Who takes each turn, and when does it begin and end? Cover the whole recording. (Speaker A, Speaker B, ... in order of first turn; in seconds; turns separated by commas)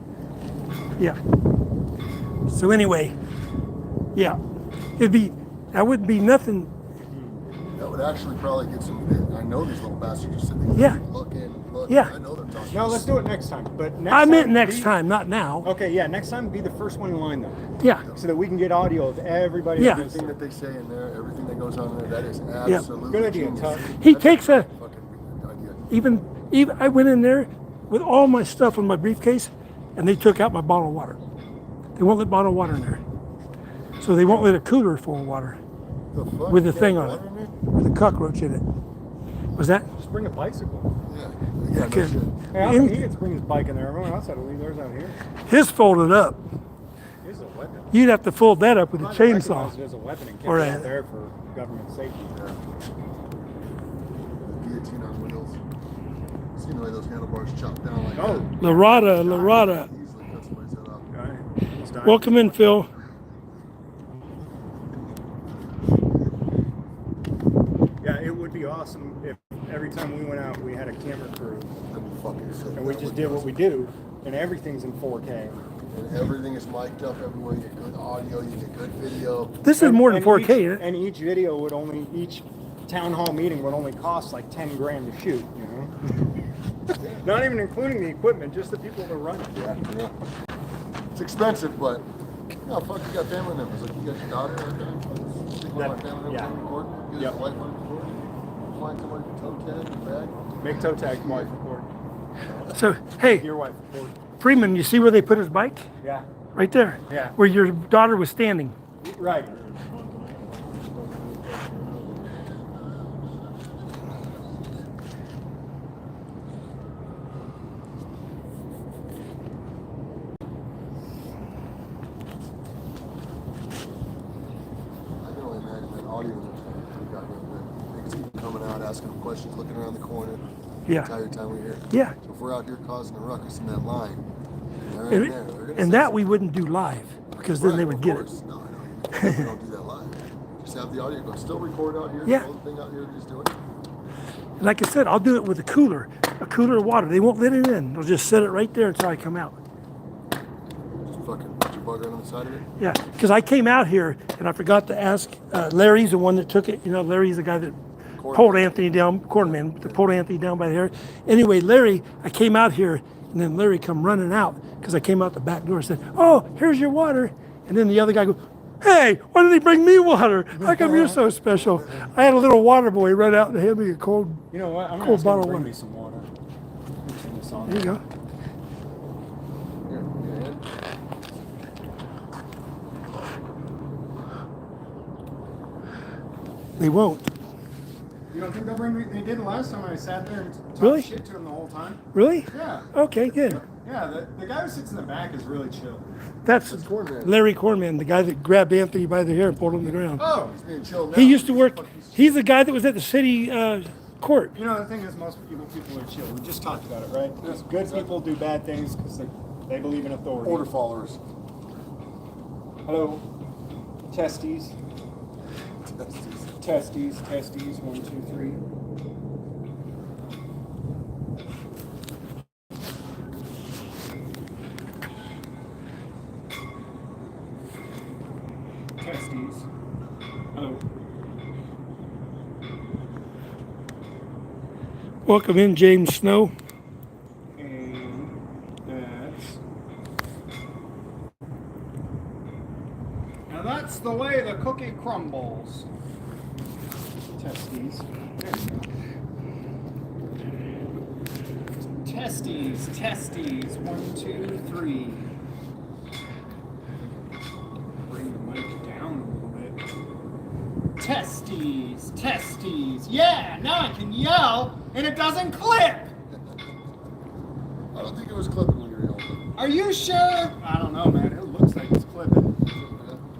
Speaker A: 2.5-3.1, Speaker A: 5.0-6.7, Speaker B: 7.1-7.4, Speaker C: 7.8-13.1, Speaker A: 10.7-11.0, Speaker B: 12.7-14.9, Speaker A: 14.1-15.7, Speaker B: 15.6-20.4, Speaker A: 19.8-20.0, Speaker C: 19.8-25.9, Speaker B: 23.1-24.0, Speaker A: 24.0-24.7, Speaker A: 25.9-31.2, Speaker A: 32.0-33.0, Speaker A: 34.0-35.6, Speaker C: 36.1-37.6, Speaker A: 36.5-37.2, Speaker A: 37.7-38.6, Speaker A: 39.5-39.9, Speaker B: 40.0-40.9, Speaker C: 41.0-42.5, Speaker A: 41.8-42.9, Speaker B: 42.5-45.2, Speaker A: 45.5-46.4, Speaker B: 47.2-47.9, Speaker A: 47.9-49.7, Speaker B: 48.9-52.4, Speaker A: 50.5-50.9, Speaker C: 52.3-52.6, Speaker C: 54.4-55.6, Speaker C: 56.5-61.1, Speaker B: 58.1-58.6, Speaker A: 58.6-59.9, Speaker B: 61.1-62.7, Speaker A: 62.0-62.9, Speaker B: 68.0-71.7, Speaker C: 71.9-73.5, Speaker B: 72.7-75.6, Speaker C: 75.9-79.6, Speaker A: 79.6-80.8, Speaker B: 79.8-86.1, Speaker B: 87.0-89.7, Speaker C: 89.5-90.1, Speaker C: 91.1-92.1, Speaker C: 92.6-101.5, Speaker B: 95.7-96.5, Speaker B: 100.6-101.9, Speaker A: 102.7-103.4, Speaker B: 103.2-104.2, Speaker A: 104.4-105.8, Speaker B: 106.0-106.3, Speaker A: 106.5-108.7, Speaker B: 107.1-107.3, Speaker B: 109.0-109.6, Speaker C: 125.2-130.4, Speaker C: 131.0-134.2, Speaker C: 134.8-136.2, Speaker A: 135.1-138.2, Speaker C: 137.4-143.5, Speaker A: 139.2-139.5, Speaker A: 144.6-149.5, Speaker C: 151.0-152.6, Speaker A: 152.8-157.8, Speaker C: 158.2-160.0, Speaker A: 158.3-174.4, Speaker B: 170.5-171.2, Speaker C: 171.5-172.2, Speaker B: 174.5-176.3, Speaker A: 175.0-175.7, Speaker B: 177.0-178.0, Speaker A: 177.7-178.0, Speaker C: 179.8-180.6, Speaker A: 186.8-187.3, Speaker B: 188.3-192.9, Speaker A: 190.8-191.1, Speaker A: 192.1-193.6, Speaker C: 193.3-193.6, Speaker B: 193.6-196.1, Speaker A: 196.4-200.2, Speaker C: 196.5-197.4, Speaker C: 199.8-202.3, Speaker B: 200.2-200.6, Speaker A: 201.1-204.5, Speaker B: 204.5-210.7, Speaker C: 207.4-208.1, Speaker C: 210.4-211.2, Speaker B: 212.8-213.2, Speaker B: 214.1-214.8, Speaker C: 215.8-216.7, Speaker B: 216.6-218.6, Speaker B: 229.0-229.7, Speaker B: 230.5-230.8, Speaker A: 235.2-236.5, Speaker B: 237.6-239.6, Speaker B: 243.5-245.9, Speaker B: 247.3-248.9, Speaker B: 252.0-255.3, Speaker B: 258.0-259.8, Speaker B: 261.0-266.1, Speaker C: 267.9-269.4, Speaker B: 269.5-272.5, Speaker C: 272.7-273.2